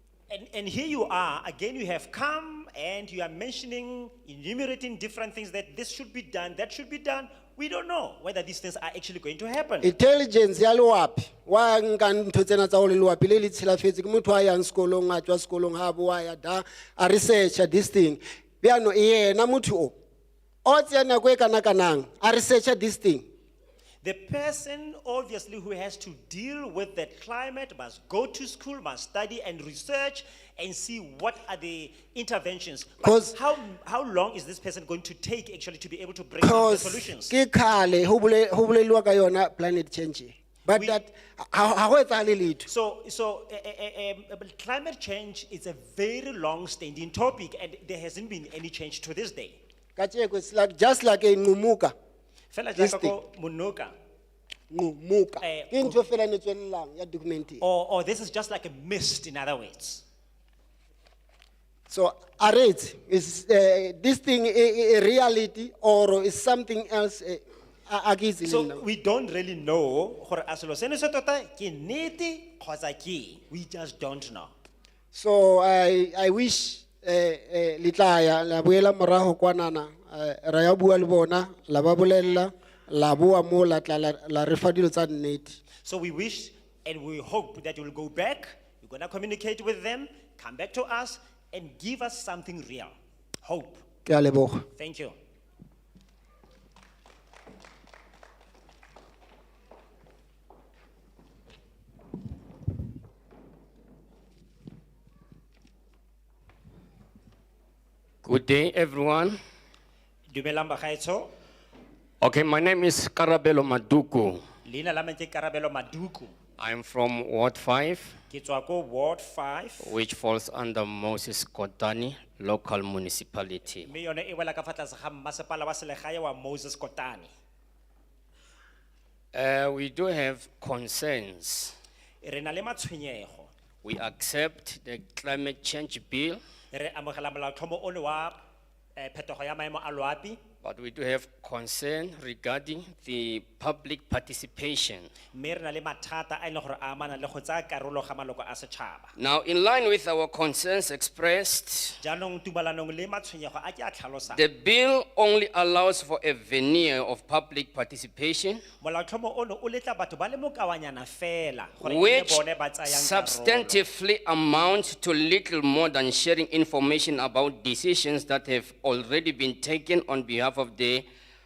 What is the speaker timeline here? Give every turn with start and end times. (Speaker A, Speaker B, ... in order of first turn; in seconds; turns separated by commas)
Speaker A: 0.3-9.9, Speaker B: 9.8-19.9, Speaker B: 20.6-23.2, Speaker A: 24.0-37.3, Speaker B: 33.0-33.4, Speaker B: 36.4-42.7, Speaker A: 40.7-41.0, Speaker A: 42.7-49.6, Speaker B: 50.0-51.9, Speaker A: 52.5-53.9, Speaker B: 52.8-53.1, Speaker B: 54.7-57.6, Speaker A: 55.4-56.0, Speaker A: 57.6-60.0, Speaker B: 61.9-68.8, Speaker A: 68.4-74.5, Speaker B: 75.1-85.6, Speaker A: 85.8-93.8, Speaker B: 94.0-94.6, Speaker A: 94.8-95.1, Speaker C: 108.2-109.4, Speaker A: 110.3-111.3, Speaker C: 112.2-114.4, Speaker A: 114.6-116.3, Speaker C: 116.6-118.2, Speaker A: 118.3-119.9, Speaker C: 119.8-123.9, Speaker A: 123.8-127.3, Speaker C: 129.3-131.7, Speaker A: 132.2-133.5, Speaker C: 133.8-136.4, Speaker A: 136.7-138.4, Speaker A: 139.0-140.4, Speaker C: 140.6-145.1, Speaker A: 145.3-149.1, Speaker C: 149.2-152.0, Speaker A: 152.0-154.4, Speaker C: 154.3-158.6, Speaker A: 158.8-163.8, Speaker C: 161.8-171.1